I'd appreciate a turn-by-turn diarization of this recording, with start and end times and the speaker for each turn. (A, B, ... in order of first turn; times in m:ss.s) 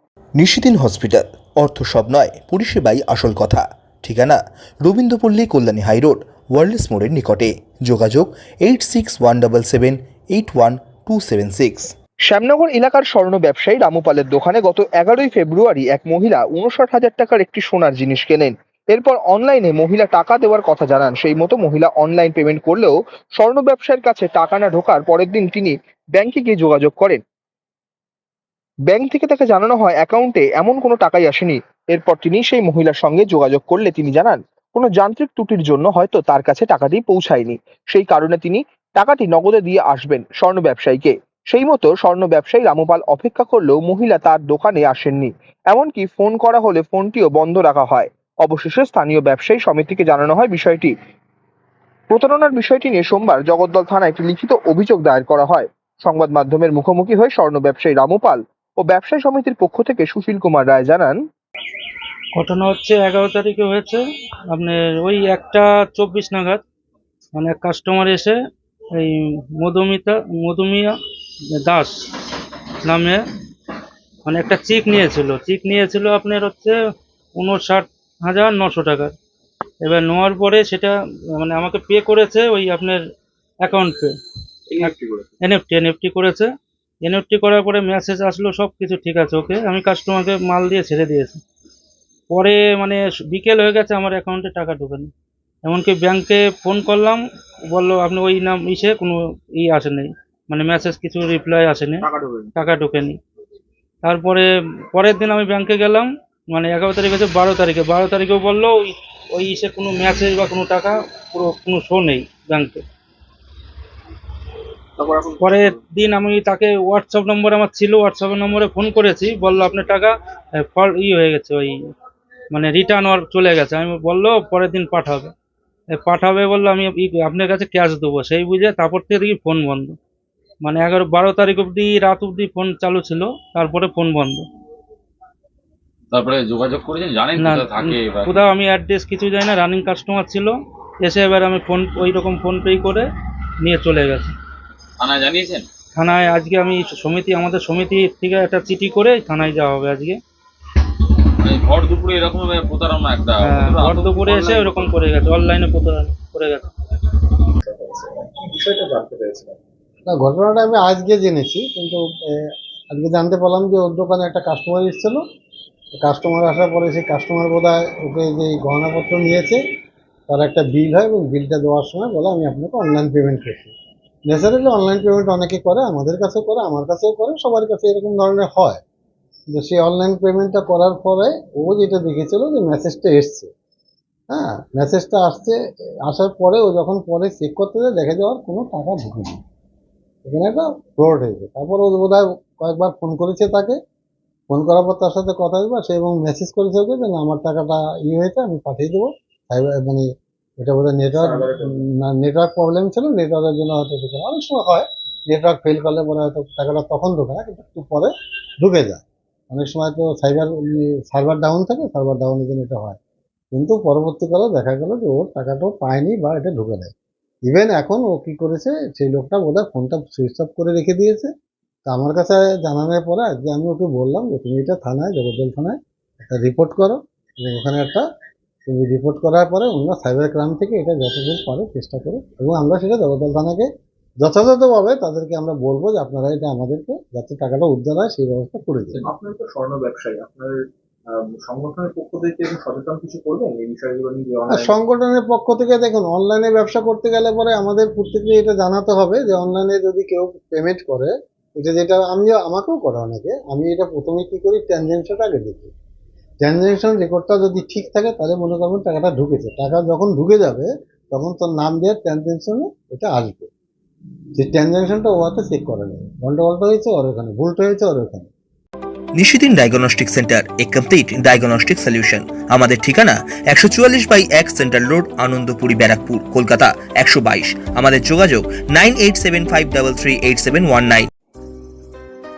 0:00.4-0:11.9 A
0:12.3-0:27.2 B
0:28.9-0:50.9 B
0:52.1-1:01.2 B
1:02.4-1:06.6 C
1:07.3-1:08.4 C
1:09.0-1:11.0 C
1:11.6-1:12.0 C
1:12.8-1:13.2 C
1:14.2-1:16.8 C
1:17.4-1:19.1 C
1:19.8-1:23.0 C
1:23.6-1:24.1 C
1:24.7-1:25.3 D
1:25.4-1:26.5 C
1:27.0-1:31.4 C
1:32.3-1:35.1 C
1:35.6-1:42.0 C
1:42.0-1:42.5 D
1:42.6-1:43.2 C
1:44.0-1:52.8 C
1:55.0-1:55.8 D
1:55.4-2:01.8 C
2:02.5-2:05.3 C
2:05.9-2:10.0 C
2:10.6-2:14.4 C
2:16.1-2:18.5 E
2:17.4-2:23.1 C
2:23.6-2:24.3 C
2:25.0-2:25.7 E
2:26.0-2:30.2 C
2:31.4-2:34.9 E
2:33.5-2:36.7 C
2:37.6-2:39.6 D
2:40.1-2:45.2 F
2:46.0-2:49.6 F
2:50.3-2:53.7 F
2:54.3-2:58.8 F
2:59.5-3:03.5 F
3:04.3-3:05.6 F
3:06.1-3:09.4 F
3:10.2-3:13.8 F
3:14.5-3:20.1 F
3:20.6-3:33.0 F
3:21.2-3:21.8 D
3:33.5-3:36.9 F
3:37.5-3:41.3 F
3:41.9-3:48.0 F
3:48.7-3:53.7 F
3:54.2-3:59.0 F
3:59.0-4:04.7 D
4:04.5-4:15.7 F
4:16.4-4:23.5 F
4:24.4-4:28.3 F
4:29.2-4:41.1 A